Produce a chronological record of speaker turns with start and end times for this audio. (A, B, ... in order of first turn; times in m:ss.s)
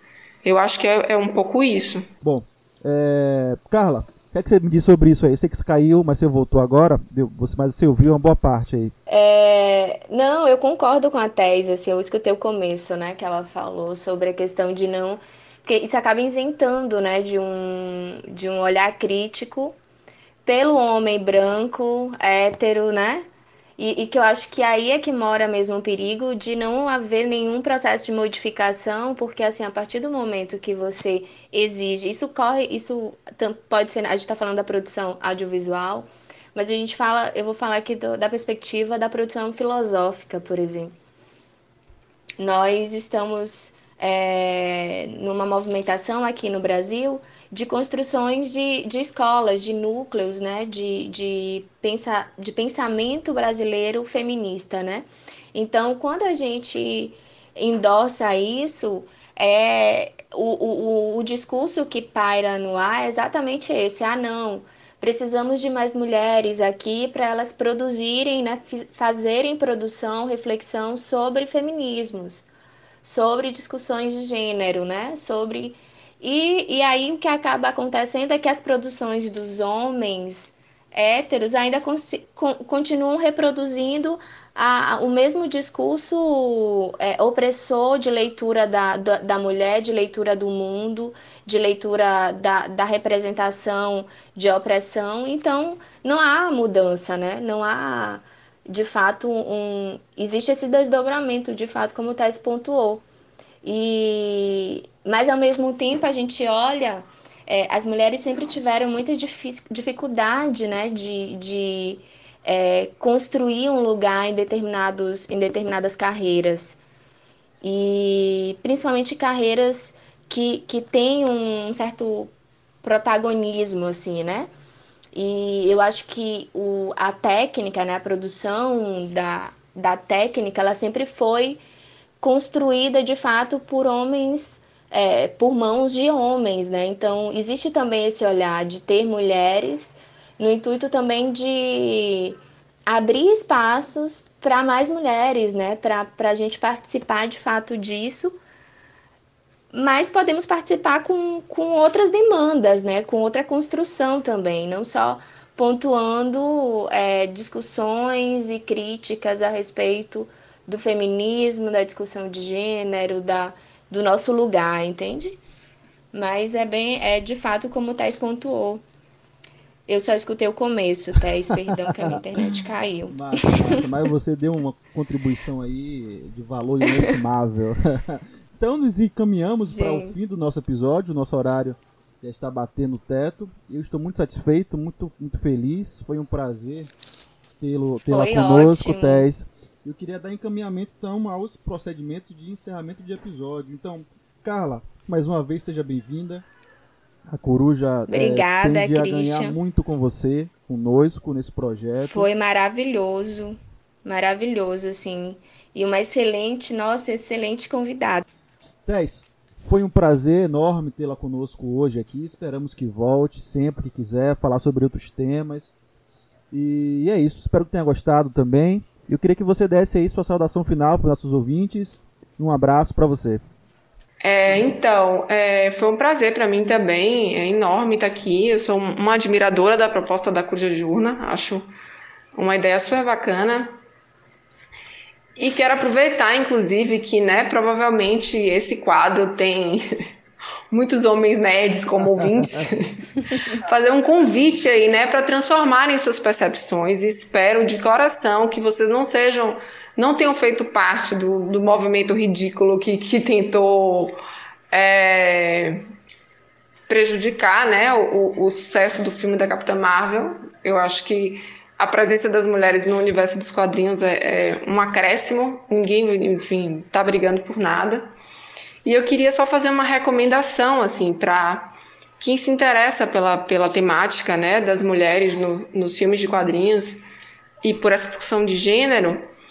0:00.4-0:02.1 A
0:02.2-0:08.9 B
0:09.1-0:19.8 C
0:20.4-0:23.2 C
0:23.8-0:40.9 C
0:42.4-1:12.4 C
1:13.0-1:43.0 C
1:43.6-1:56.8 C
1:57.6-2:02.3 C
2:02.8-2:04.5 C
2:05.1-2:11.6 C
2:12.2-2:28.4 C
2:29.7-2:45.4 C
2:46.1-2:48.8 C
2:49.9-2:53.8 C
2:51.5-3:06.9 B
2:56.9-2:57.2 C
2:59.6-3:00.2 C
3:07.6-3:16.4 B
3:08.1-3:09.3 C
3:17.3-3:22.3 B
3:18.1-3:19.6 C
3:22.1-3:28.2 C
3:28.8-3:35.7 B
3:36.5-3:43.4 B
3:44.2-3:51.7 A
3:52.3-3:53.8 A
3:55.4-3:59.9 A
4:00.7-4:14.2 A
4:14.7-4:15.9 A
4:16.9-4:28.1 A
4:28.8-4:37.0 A
4:37.6-4:39.3 A